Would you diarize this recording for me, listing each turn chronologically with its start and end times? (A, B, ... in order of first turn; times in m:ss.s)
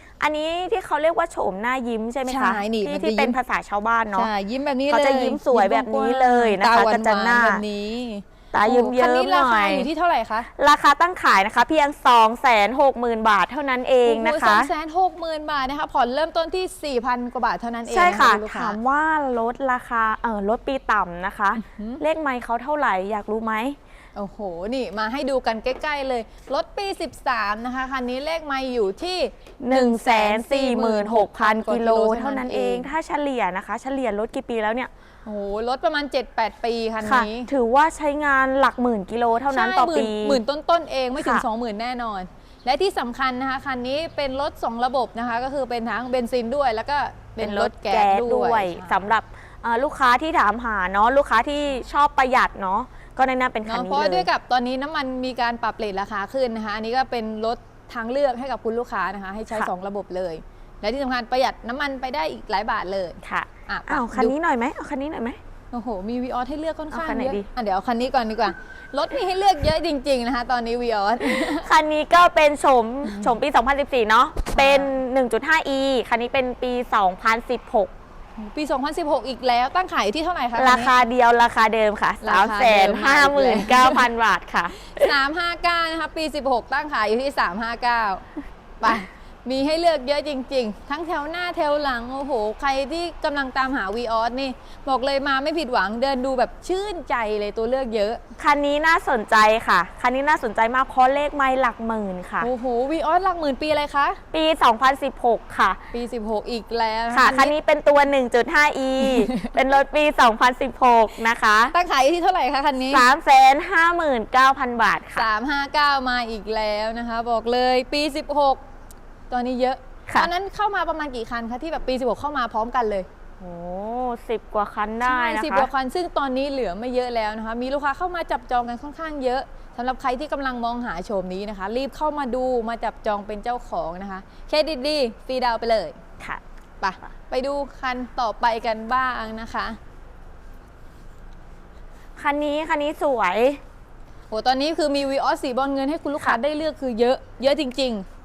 0:00.2-0:04.3 A
0:02.3-0:03.4 B
0:04.1-0:10.5 B
0:04.9-0:07.6 A
0:08.5-0:09.9 A
0:10.6-0:14.7 A
0:14.0-0:18.8 B
0:17.9-0:23.8 A
0:21.6-0:22.0 B
0:24.2-0:32.9 B
0:29.6-0:34.9 A
0:35.2-0:37.5 B
0:37.0-0:40.4 A
0:39.5-0:49.0 B
0:41.2-0:41.4 A
0:47.4-0:54.3 A
0:53.6-1:04.3 B
1:03.2-1:05.4 A
1:05.7-1:11.7 B
1:06.9-1:07.4 A
1:11.2-1:17.9 A
1:14.5-1:15.0 B
1:18.4-1:20.9 B
1:20.6-1:25.1 A
1:22.2-1:24.1 B
1:24.8-1:28.2 B
1:28.8-1:38.2 B
1:38.4-1:42.5 A
1:42.4-1:44.2 B
1:44.3-1:45.8 A
1:45.9-1:47.5 B
1:47.1-1:51.7 A
1:49.0-1:49.5 B
1:51.7-1:53.0 B
1:52.9-1:55.3 A
1:55.1-1:58.6 B
1:59.3-2:03.1 B
2:03.4-2:05.7 A
2:05.0-2:16.0 B
2:16.8-2:19.8 B
2:22.2-2:23.6 A
2:24.3-2:28.0 B